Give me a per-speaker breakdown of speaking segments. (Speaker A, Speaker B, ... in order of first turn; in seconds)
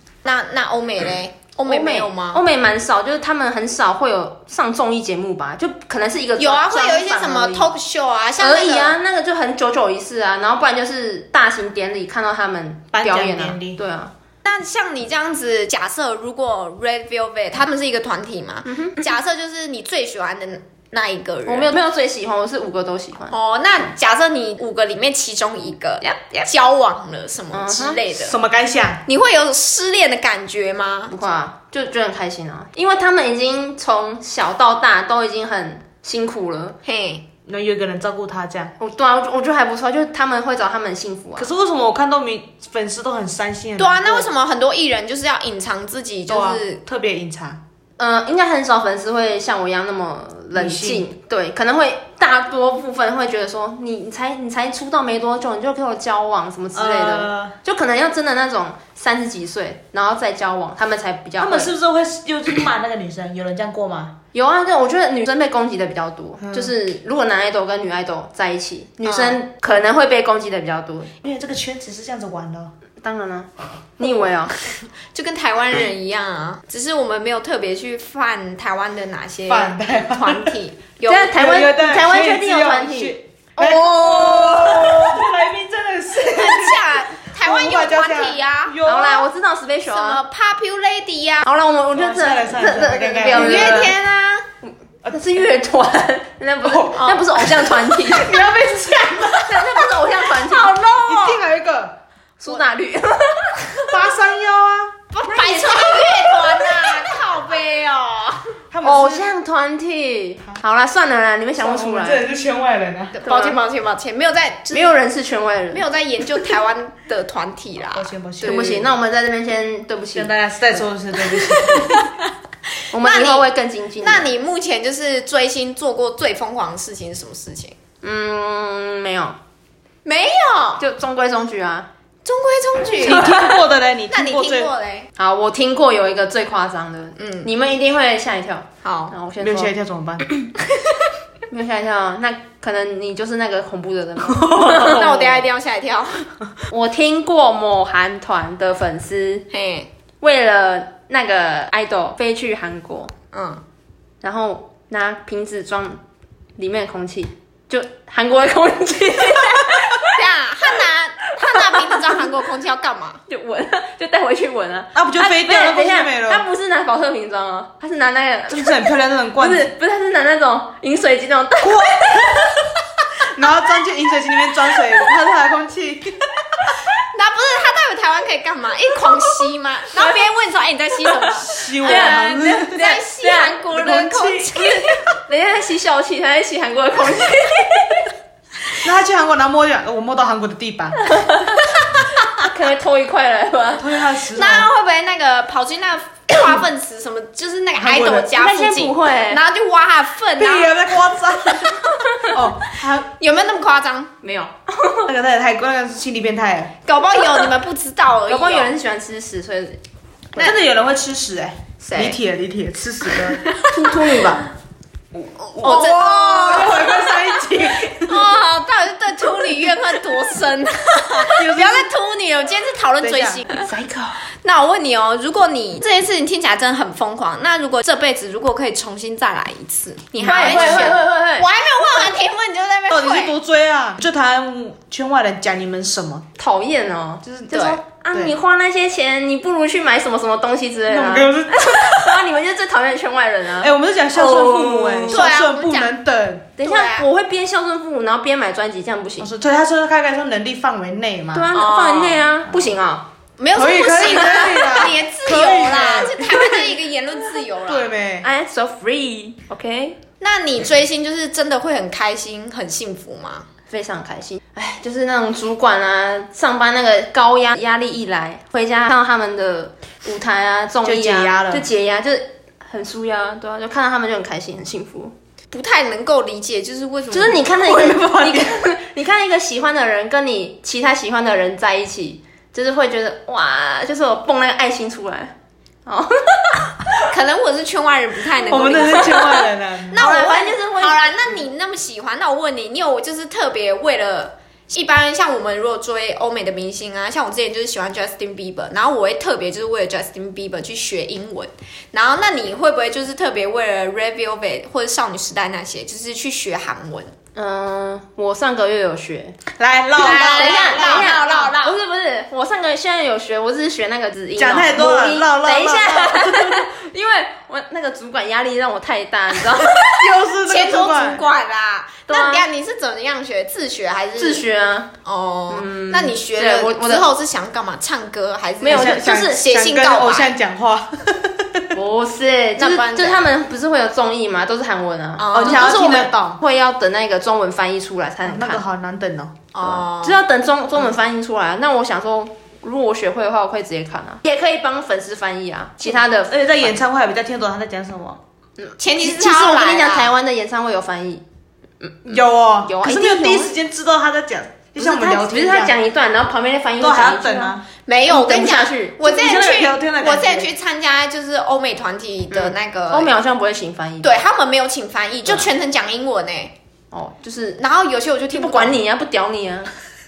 Speaker A: 0.2-2.4, 6.4-9.0, 14.4-21.8, 23.3-28.4, 29.1-31.1, 36.8-37.3, 43.8-46.8, 69.0-69.4, 75.1-81.4, 84.0-84.8, 86.2-88.8, 89.9-91.5, 93.3-94.5, 97.0-97.2, 100.3-101.5, 105.1-108.5, 113.1-114.9, 115.7-118.7, 121.5-122.0, 123.0-123.5, 124.0-127.8, 130.1-130.8, 132.2-133.6, 134.1-135.1, 137.2-137.5, 138.8-139.1, 144.7-146.2, 149.5-149.9, 153.3-153.6, 160.1-163.2, 177.1-185.0, 194.3-200.8, 203.2-204.1, 206.8-208.7, 211.8-212.2, 213.4-213.7, 215.6-217.2, 218.0-223.7, 224.4-233.4, 237.5-237.8, 245.1-245.9, 246.6-247.1, 251.5-252.3, 253.4-257.9, 260.2-263.5, 275.5-277.9, 287.1-307.1, 310.0-311.8, 320.4-324.4, 325.0-330.3, 332.6-333.2, 335.2-335.9, 339.5-340.2, 348.8-350.1, 357.9-363.1, 364.0-366.5, 367.6-368.8
Speaker B: 1.7-7.8, 8.4-14.1, 18.7-19.0, 21.5-23.3, 26.0-26.5, 27.5-28.0, 31.1-36.8, 38.8-41.5, 48.0-61.7, 64.3-71.1, 73.0-74.5, 81.1-85.2, 88.8-90.2, 91.4-94.0, 94.6-98.6, 99.2-100.8, 102.4-104.0, 105.3-107.2, 108.8-112.3, 113.2-113.6, 114.7-115.8, 118.4-120.8, 122.9-124.3, 128.0-129.4, 130.8-131.9, 133.2-133.5, 135.2-139.7, 141.5-145.5, 146.7-149.5, 150.2-153.1, 154.2-156.0, 156.6-160.2, 161.4-162.2, 163.3-172.8, 181.8-183.6, 185.3-188.1, 191.1-191.6, 192.4-194.1, 198.3-199.4, 202.0-202.3, 204.2-205.1, 208.3-209.8, 213.7-214.4, 223.6-224.2, 230.2-231.5, 236.4-245.3, 246.6-249.3, 251.3-253.1, 258.2-260.0, 263.7-275.1, 277.1-285.4, 285.9-286.9, 288.6-289.4, 289.9-291.4, 307.4-309.4, 310.0-319.9, 322.1-322.5, 324.2-324.9, 325.5-327.1, 328.6-329.5, 331.7-338.6, 339.6-346.8, 348.6-351.2, 351.8-353.6, 354.8-359.0, 362.3-364.2, 366.9-367.6, 368.3-369.7
Speaker C: 12.9-13.8, 28.1-29.0, 37.5-38.7, 41.4-44.3, 46.3-47.6, 50.5-51.0, 56.7-57.6, 61.4-64.2, 66.4-66.7, 71.2-72.7, 79.5-80.5, 81.3-89.3, 92.0-93.9, 96.7-99.8, 101.0-102.0, 103.8-104.9, 108.7-109.3, 111.6-113.2, 117.9-118.9, 120.2-122.1, 132.9-134.7, 139.4-140.3, 144.3-145.1, 164.9-166.4, 168.5-169.7, 171.6-172.5, 173.2-176.3, 181.4-182.9, 183.7-184.8, 188.8-191.0, 193.8-194.7, 197.8-198.3, 200.4-203.1, 205.1-206.8, 210.4-213.5, 215.2-218.2, 221.3-221.9, 223.0-223.5, 230.2-231.0, 232.9-236.3, 237.2-238.3, 240.9-242.2, 243.6-246.5, 249.2-251.5, 253.6-256.6, 257.7-258.3, 270.9-271.7, 288.5-290.0, 309.6-311.2, 314.4-316.7, 319.8-321.2, 328.7-331.7, 335.3-336.4, 338.3-339.4, 345.8-348.2, 352.1-355.7, 356.8-357.6, 359.1-360.5